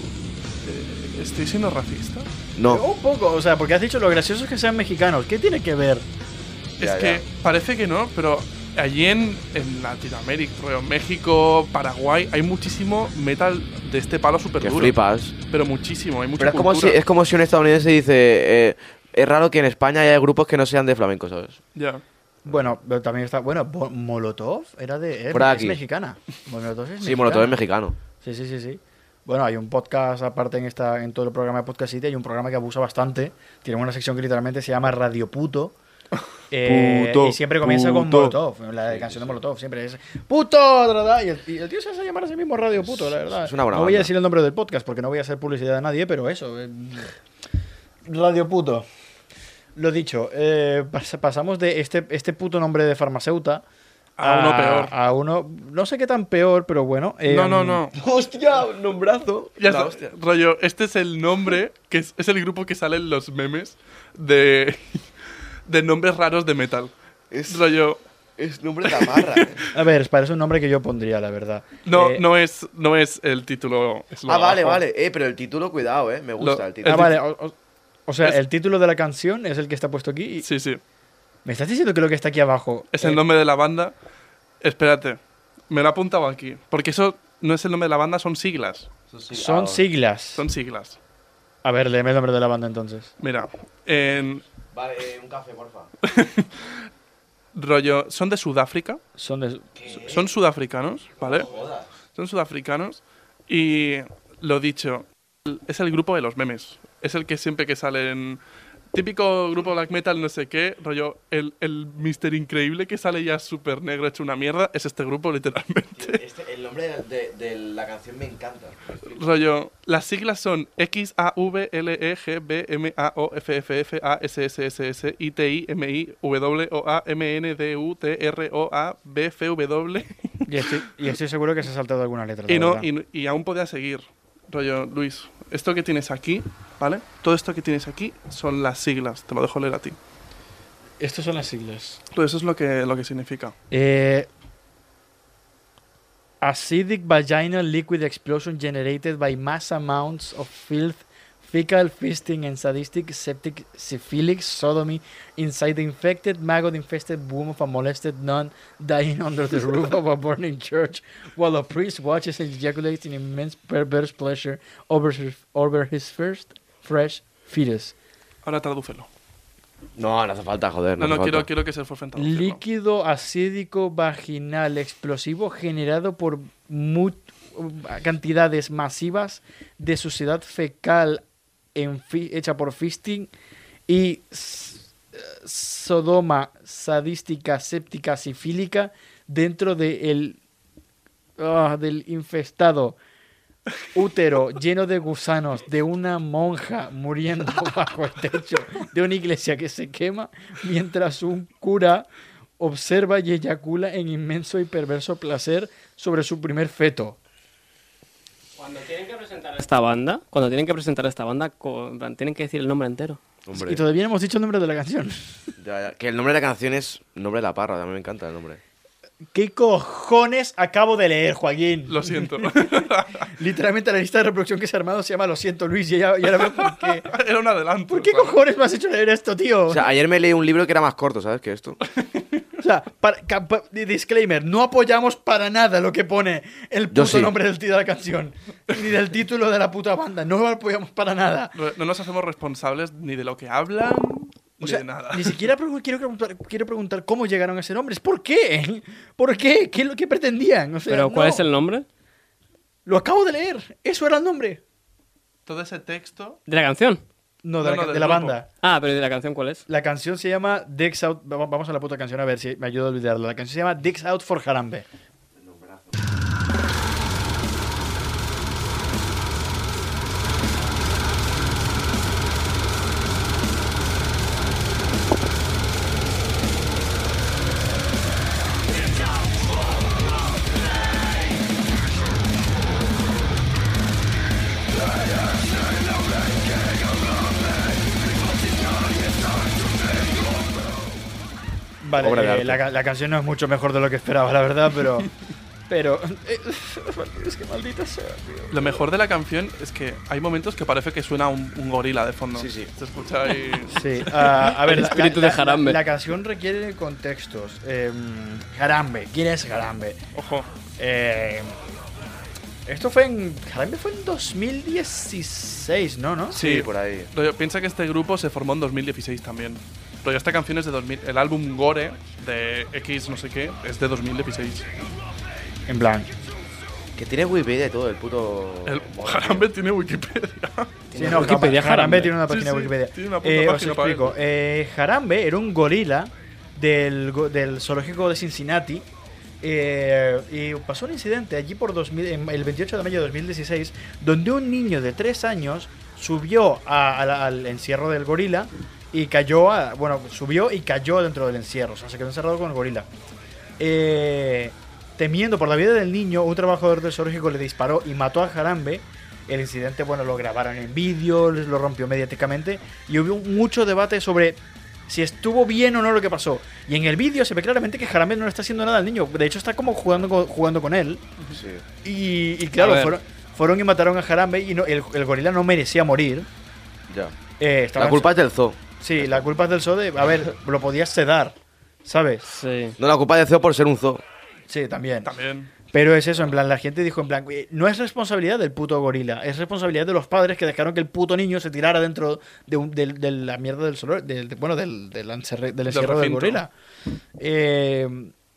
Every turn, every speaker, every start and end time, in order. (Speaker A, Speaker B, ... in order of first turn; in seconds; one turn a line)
Speaker A: 0.6-2.3
Speaker B: 2.6-2.8
Speaker C: 2.7-6.1
Speaker A: 6.8-17.0
Speaker B: 6.8-7.2
Speaker B: 14.6-15.3
Speaker B: 16.4-21.6
Speaker A: 21.8-22.0
Speaker C: 22.4-27.6
Speaker B: 25.3-25.8
Speaker B: 27.0-28.0
Speaker C: 28.2-35.8
Speaker C: 36.5-47.1
Speaker B: 36.6-38.4
Speaker B: 38.9-39.4
Speaker B: 43.3-44.1
Speaker C: 48.0-48.9
Speaker C: 49.8-53.6
Speaker A: 54.2-54.9
Speaker C: 54.2-57.9
Speaker A: 57.3-58.0
Speaker B: 57.9-60.0
Speaker A: 59.6-65.1
Speaker A: 65.7-66.9
Speaker B: 67.3-67.6
Speaker A: 67.5-68.0
Speaker B: 68.4-69.6
Speaker A: 68.8-69.7
Speaker C: 69.7-72.2
Speaker A: 71.9-74.8
Speaker B: 74.3-77.1
Speaker A: 76.4-77.1
Speaker C: 76.8-77.6
Speaker C: 78.1-80.5
Speaker A: 80.4-80.8
Speaker C: 81.5-83.2
Speaker A: 82.9-83.9
Speaker A: 84.6-88.9
Speaker B: 89.1-89.8
Speaker C: 89.3-90.4
Speaker A: 90.4-91.0
Speaker C: 91.6-93.1
Speaker A: 93.2-94.4
Speaker B: 94.7-95.9
Speaker A: 96.0-96.5
Speaker A: 97.5-99.0
Speaker C: 99.2-99.7
Speaker B: 99.8-100.2
Speaker A: 99.9-101.5
Speaker B: 101.2-101.9
Speaker A: 102.2-108.4
Speaker A: 108.9-116.2
Speaker B: 116.0-119.2
Speaker A: 119.1-130.7
Speaker C: 130.5-132.9
Speaker A: 132.5-140.0
Speaker C: 141.0-142.0
Speaker A: 142.1-143.6
Speaker C: 143.7-144.3
Speaker C: 146.4-167.9
Speaker A: 168.4-169.1
Speaker B: 170.0-171.5
Speaker A: 171.0-172.6
Speaker C: 172.2-181.2
Speaker C: 181.8-183.3
Speaker C: 183.9-190.4
Speaker C: 191.4-193.0
Speaker C: 193.9-207.2
Speaker D: 208.6-213.2
Speaker B: 213.5-213.8
Speaker C: 213.5-215.4
Speaker B: 215.6-218.6
Speaker C: 219.3-227.1
Speaker A: 221.9-223.3
Speaker A: 226.4-228.4
Speaker C: 227.9-229.9
Speaker B: 229.7-231.8
Speaker C: 232.6-241.5
Speaker B: 236.9-237.3
Speaker A: 241.6-245.5
Speaker C: 244.6-251.5
Speaker D: 250.9-251.9
Speaker C: 252.8-254.6
Speaker A: 255.5-256.4
Speaker D: 256.5-257.0
Speaker C: 257.4-258.5
Speaker A: 257.6-258.4
Speaker D: 258.6-259.6
Speaker C: 259.7-264.9
Speaker B: 265.4-265.9
Speaker C: 291.8-295.1
Speaker B: 292.0-292.6
Speaker C: 295.7-298.8
Speaker A: 298.5-304.1
Speaker B: 302.3-302.7
Speaker C: 303.7-310.0
Speaker D: 304.5-305.8
Speaker A: 310.1-310.5
Speaker C: 310.8-311.6
Speaker C: 312.7-316.4
Speaker B: 316.3-317.1
Speaker A: 316.3-324.7
Speaker C: 325.7-326.1
Speaker B: 327.0-329.4
Speaker A: 328.7-330.8
Speaker D: 330.9-332.2
Speaker C: 330.9-338.9
Speaker A: 332.3-334.1
Speaker C: 339.4-352.9
Speaker C: 353.6-371.0
Speaker B: 371.3-371.6
Speaker C: 371.8-376.3
Speaker B: 376.9-377.1
Speaker C: 377.4-378.2
Speaker B: 377.8-379.3
Speaker C: 378.8-382.2
Speaker D: 382.3-382.8
Speaker B: 382.8-384.0
Speaker C: 384.5-385.1
Speaker A: 385.1-385.5
Speaker C: 385.7-396.5
Speaker A: 395.7-396.4
Speaker C: 397.2-398.1